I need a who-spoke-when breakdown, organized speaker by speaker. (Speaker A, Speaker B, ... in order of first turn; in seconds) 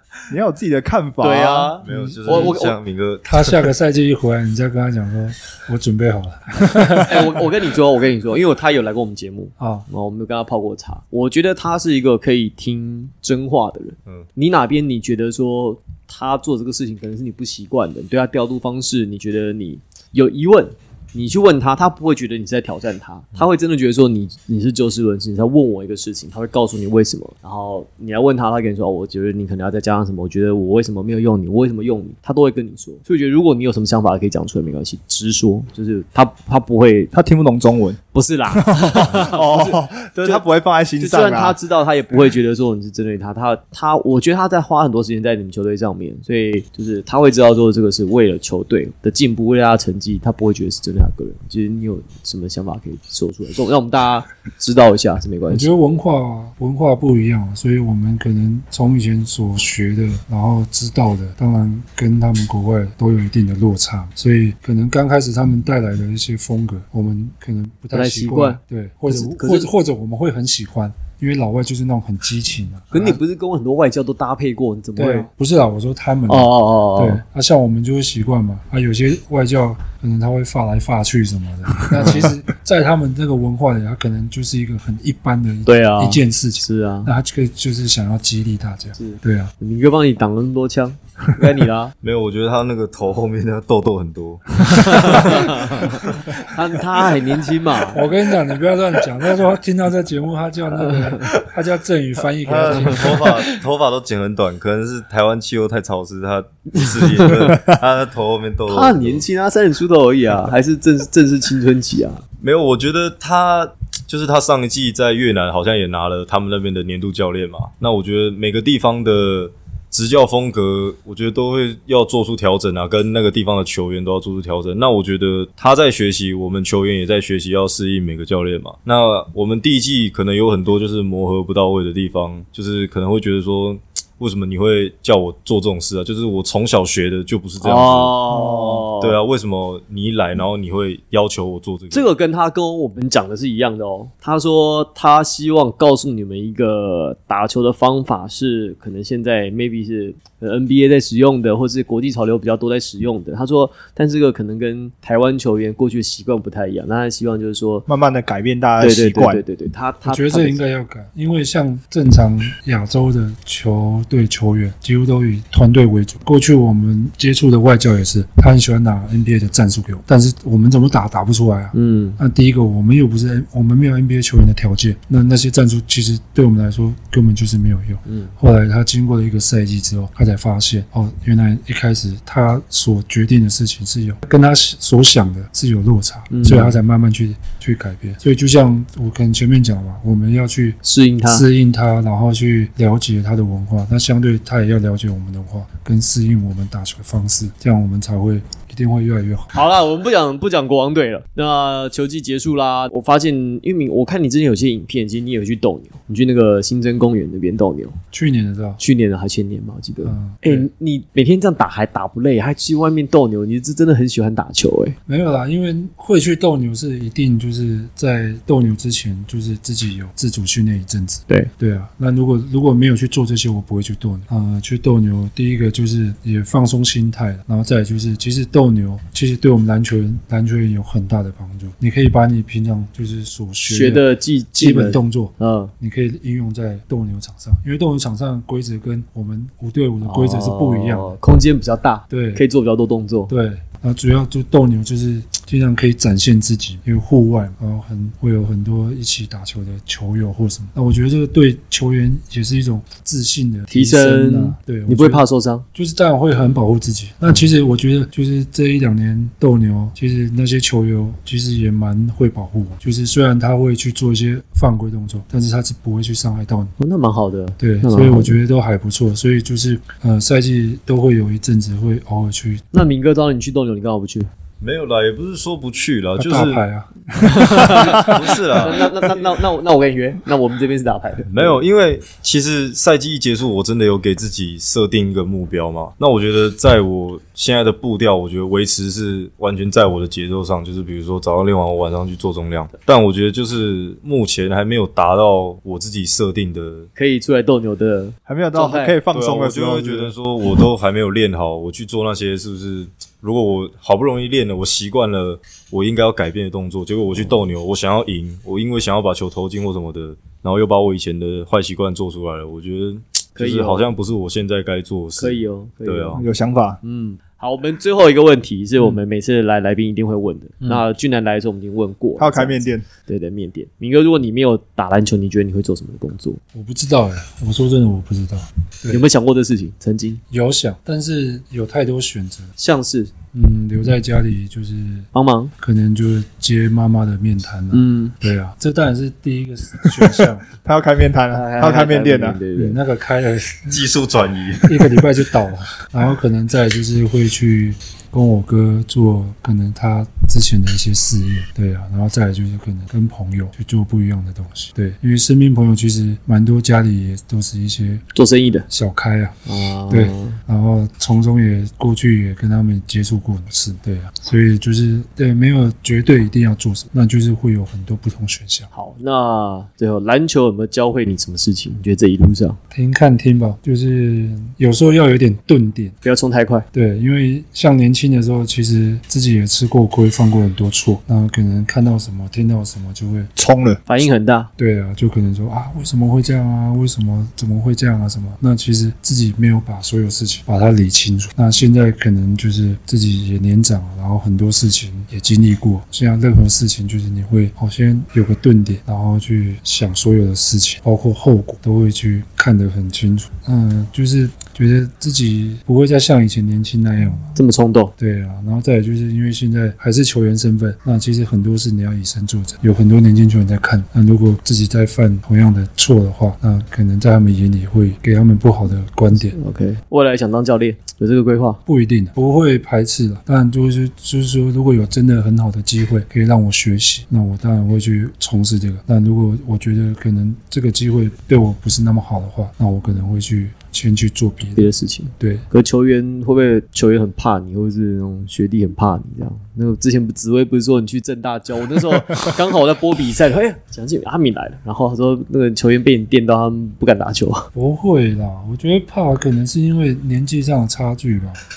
Speaker A: 0.3-1.8, 37.1-38.0, 38.5-41.6, 157.9-159.4, 298.2-300.1, 316.1-316.8, 322.2-322.9, 340.6-342.4, 383.4-383.8
Speaker B: 1.2-2.8, 7.0-37.1, 38.1-40.4, 41.0-55.7, 67.9-69.7, 72.9-75.3, 76.3-77.2, 82.0-82.3, 85.7-87.1, 89.0-91.9, 94.7-98.0, 100.9-101.3, 102.7-103.1, 106.8-107.6, 108.7-112.2, 137.6-139.2, 141.9-157.9, 158.8-160.6, 171.7-172.2, 178.1-178.3, 186.3-186.8, 190.8-191.4, 199.5-208.0, 208.8-215.0, 233.7-235.7, 240.0-243.3, 253.7-255.6, 266.8-268.4, 272.7-274.3, 277.4-281.6, 296.9-299.0, 313.4-313.9, 315.2-316.2, 316.8-326.4, 328.9-330.2, 332.6-333.1, 335.1-335.5, 337.7-338.1, 341.3-342.8, 358.1-358.6, 359.5-360.4, 368.7-372.6, 376.0-376.6, 383.9-384.5, 407.4-407.9, 419.3-421.6, 434.6-447.5
Speaker C: 1.8-3.7, 92.0-97.2, 102.4-109.2, 112.4-138.4, 139.0-142.1, 274.6-276.6, 277.7-279.1, 281.3-296.9, 299.1-316.2, 343.7-345.0
Speaker D: 1.9-2.5, 3.2-7.4, 9.6-9.8, 55.5-73.2, 75.0-89.5, 97.9-103.3, 160.0-199.6, 208.1-208.8, 210.0-210.7, 215.1-241.2, 242.1-242.4, 243.3-266.7, 267.6-272.6, 276.2-278.2, 326.5-329.0, 330.3-332.5, 333.3-340.5, 342.6-343.8, 344.6-358.0, 358.7-368.7, 372.7-375.9, 376.7-383.3, 384.6-407.3, 408.0-419.4, 421.6-435.4, 447.5-451.4